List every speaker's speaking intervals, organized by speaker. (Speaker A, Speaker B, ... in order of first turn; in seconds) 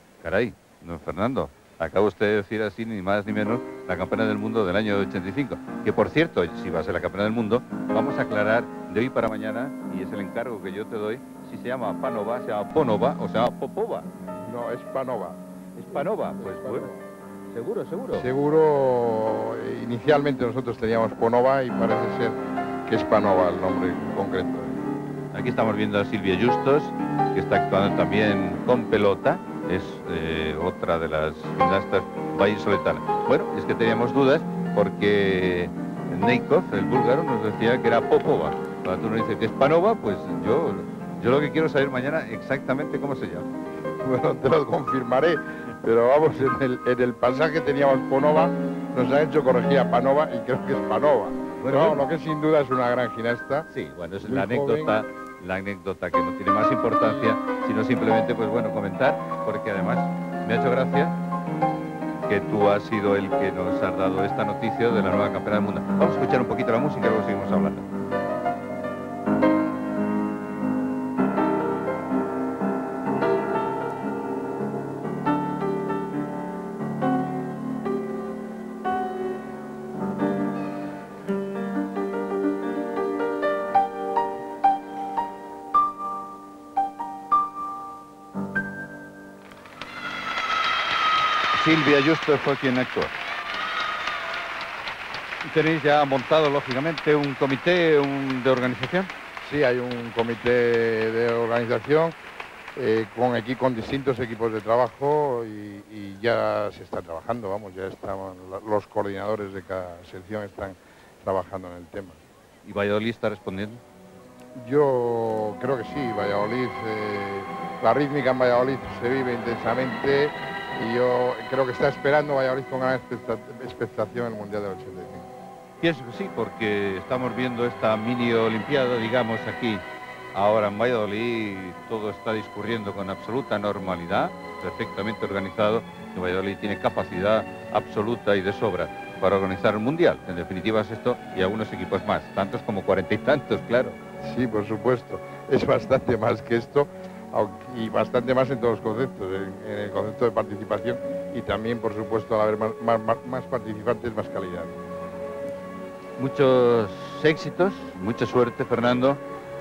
Speaker A: 0.2-14.1, 15.8-16.9, 17.5-18.3, 25.3-43.5, 51.6-52.0, 53.7-61.1, 62.3-67.8, 91.5-93.1, 95.4-99.1, 112.6-113.8, 125.8-144.0, 156.2-159.2
Speaker B: 14.4-15.4, 15.9-17.0, 18.1-24.8, 44.0-53.7, 54.2-55.0, 99.4-102.1, 102.8-112.2, 114.6-125.3, 144.2-154.7